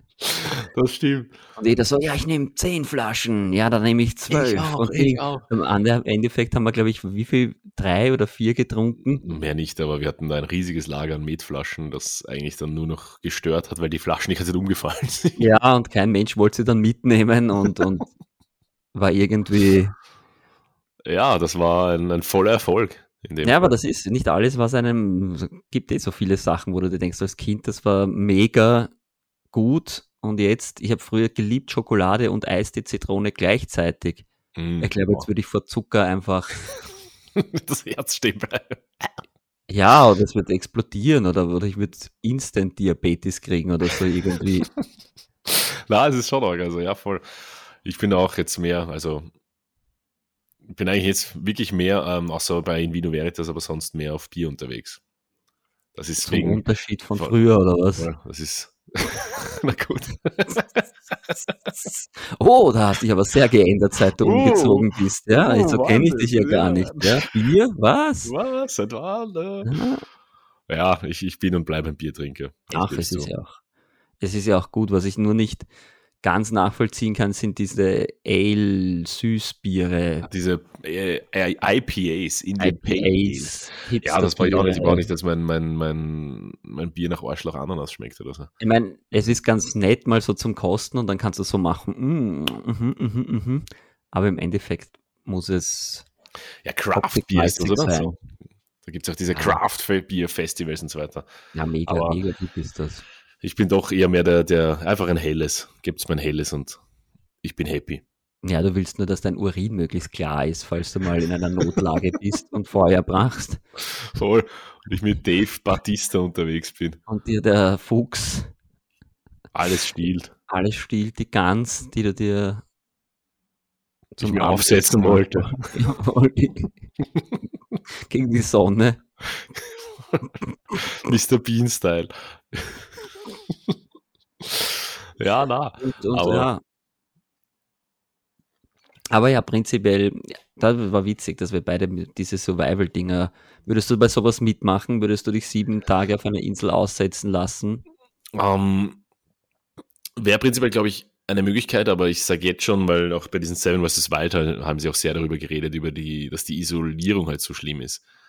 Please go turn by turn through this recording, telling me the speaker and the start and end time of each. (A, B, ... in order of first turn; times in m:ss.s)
0:00.2-0:01.4 A
0:01.6-0:09.2 B
0:04.3-0:05.5 A
0:09.2-0:15.4 A
0:15.4-0:18.1 B
0:18.9-0:20.0 B
0:21.0-0:23.8 A
0:23.4-0:28.9 B
0:29.5-0:34.3 B
0:34.6-0:35.3 A
0:34.8-0:36.7 B
0:37.4-0:39.2 A
0:39.7-0:44.7 B
0:45.5-0:49.3 A
0:50.6-0:55.0 A
0:56.0-0:56.6 A
0:56.2-0:58.1 B
0:58.0-1:01.9 A
1:02.2-1:08.3 B
1:04.2-1:07.3 A
1:08.2-1:09.8 A
1:09.6-1:10.0 B
1:10.7-1:13.3 A
1:12.7-1:13.6 B
1:14.2-1:15.7 B
1:16.2-1:20.3 B
1:20.2-1:28.5 A
1:22.6-1:25.1 B
1:28.6-1:36.1 B
1:36.6-1:38.2 A
1:36.9-1:38.1 B
1:38.8-1:41.3 A
1:39.3-1:39.6 B
1:41.5-1:43.0 B
1:41.9-1:42.2 A
1:43.4-1:46.8 A
1:47.4-1:48.0 A
1:48.4-1:53.6 B
1:54.0-1:57.0 A
1:57.1-1:58.5 B
1:59.5-2:00.3 A
2:00.5-2:02.6 B
2:04.2-2:06.8 B
2:04.2-2:05.7 A
2:08.1-2:09.0 B
2:09.6-2:10.2 A
2:10.8-2:12.9 A
2:14.4-2:16.5 A
2:15.8-2:16.6 B
2:19.1-2:27.8 B
2:28.3-2:29.0 A
2:30.2-2:38.0 A